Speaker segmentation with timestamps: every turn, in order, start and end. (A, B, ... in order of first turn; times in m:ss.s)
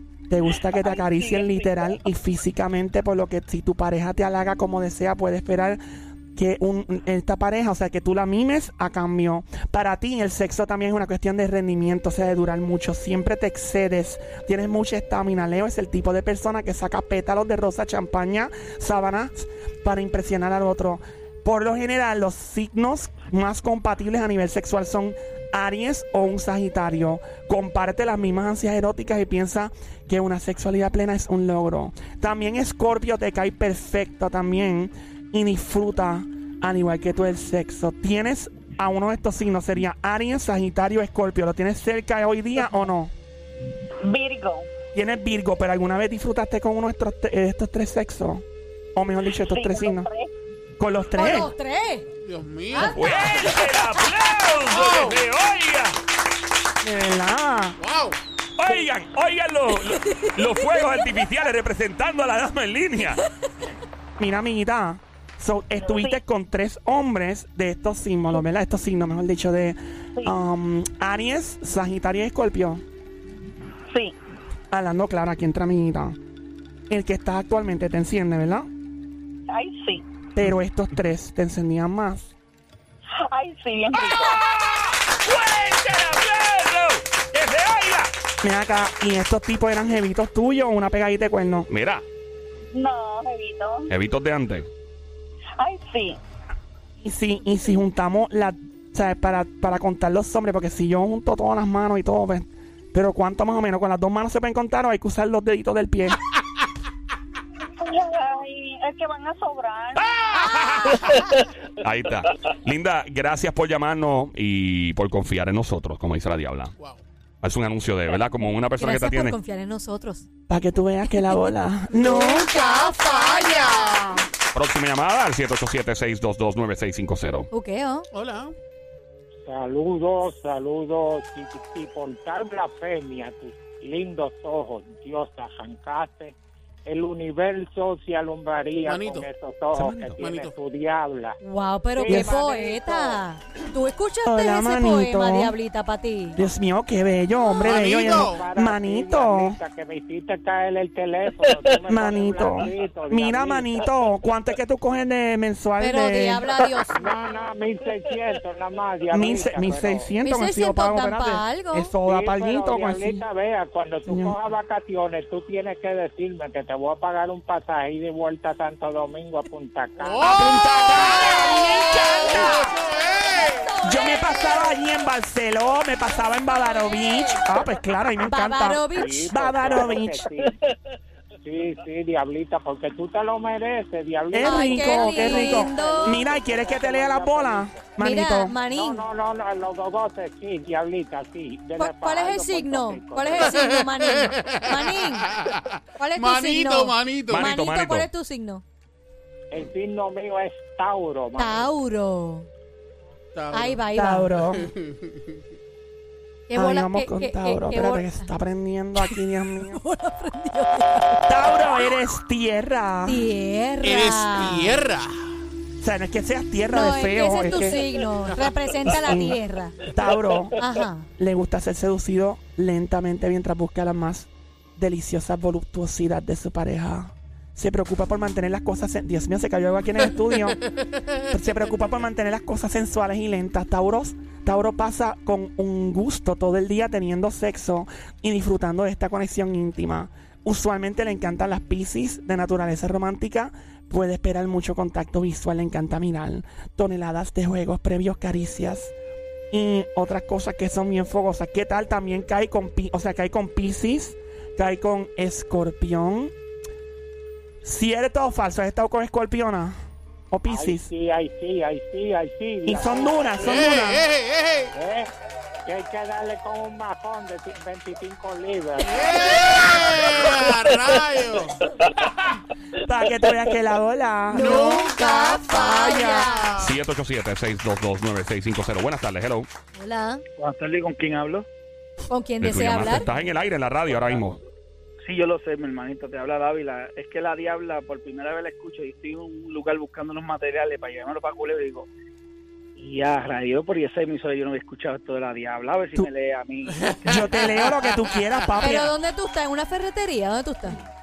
0:00.3-0:05.8 A
0:06.4-0:43.1 A
0:44.1-0:44.6 B
0:44.9-0:48.4 A
0:48.9-0:50.1 A
0:49.5-0:50.2 B
0:50.8-0:51.5 A
0:51.2-0:52.1 C
0:52.2-0:53.3 D
0:52.7-0:54.0 C
0:52.9-0:56.0 E
0:54.7-0:55.2 D
0:56.8-0:57.8 A
0:57.8-0:58.2 D
0:58.6-1:03.2 E
1:00.0-1:00.4 C
1:04.2-1:12.8 A
1:14.7-1:16.2 A
1:16.9-1:18.7 A
1:19.5-1:20.0 B
1:20.3-1:22.3 A
1:23.3-1:24.2 B
1:24.1-1:28.1 E
1:28.4-1:31.7 A
1:31.7-1:32.0 E
1:32.7-1:33.9 B
1:33.9-1:34.7 E
1:35.6-1:36.2 B
1:37.0-1:46.2 A
1:47.8-1:50.0 B
1:50.0-1:56.7 E
1:56.8-1:57.0 D
1:57.4-1:59.4 E
1:58.8-2:00.3 C
2:00.5-2:02.5 A
2:01.9-2:04.0 C
2:02.0-2:04.2 D
2:04.5-2:07.5 E
2:07.5-2:08.1 C
2:08.1-2:08.5 D
2:09.4-2:21.4 F
2:18.8-2:19.3 D
2:20.2-2:20.5 D
2:21.4-2:26.4 C
2:22.0-2:23.2 F
2:22.1-2:22.4 A
2:24.2-2:25.6 A
2:26.4-2:29.6 A
2:27.5-2:28.4 D
2:27.7-2:33.8 F
2:31.9-2:36.4 A
2:35.8-2:37.1 C
2:36.9-2:40.1 F
2:39.1-2:43.2 A
2:40.2-2:41.9 C
2:42.0-2:50.3 F
2:44.1-2:44.4 A
2:50.0-2:51.4 D
2:50.2-2:52.7 A
2:50.7-2:52.6 C
2:52.2-2:53.8 D
2:53.6-2:54.7 C
2:53.8-3:00.3 A
2:56.5-2:57.4 C
2:58.2-2:59.3 C
2:58.9-3:00.6 F
3:01.4-3:07.9 F
3:04.3-3:08.6 A
3:04.4-3:06.2 C
3:08.0-3:09.0 C
3:08.6-3:13.6 F
3:11.8-3:15.3 C
3:13.4-3:17.5 D
3:16.0-3:18.6 C
3:17.3-3:18.1 E
3:19.5-3:21.7 F
3:21.4-3:22.5 C
3:23.3-3:23.8 D
3:23.5-3:24.3 C
3:23.9-3:24.7 A
3:24.5-3:25.4 D
3:26.5-3:28.3 C
3:26.5-3:29.8 A
3:29.0-3:31.7 C
3:31.3-3:33.2 A
3:33.0-3:34.8 C
3:33.8-3:35.3 D
3:35.8-3:37.8 A
3:36.7-3:39.8 C
3:38.9-3:40.6 A
3:40.6-3:41.1 C
3:41.2-3:50.6 A
3:50.7-3:51.2 D
3:51.3-4:08.9 A
4:09.5-4:16.3 A
4:17.6-4:19.8 A
4:20.3-4:20.9 A
4:20.5-4:23.6 F
4:22.6-4:24.1 A
4:23.4-4:24.7 D
4:24.7-4:25.1 F
4:25.6-4:29.4 F
4:28.8-4:31.6 D
4:32.8-4:36.3 A
4:34.3-4:36.5 C
4:34.3-4:36.8 D
4:36.6-4:39.5 E
4:39.7-4:40.2 C
4:40.4-4:41.4 G
4:42.1-4:43.1 C
4:42.4-4:44.4 E
4:43.9-4:44.2 G
4:45.0-4:51.9 G
4:52.8-4:57.5 G
4:56.8-4:58.1 D
4:57.0-4:58.9 A
4:58.6-5:00.8 C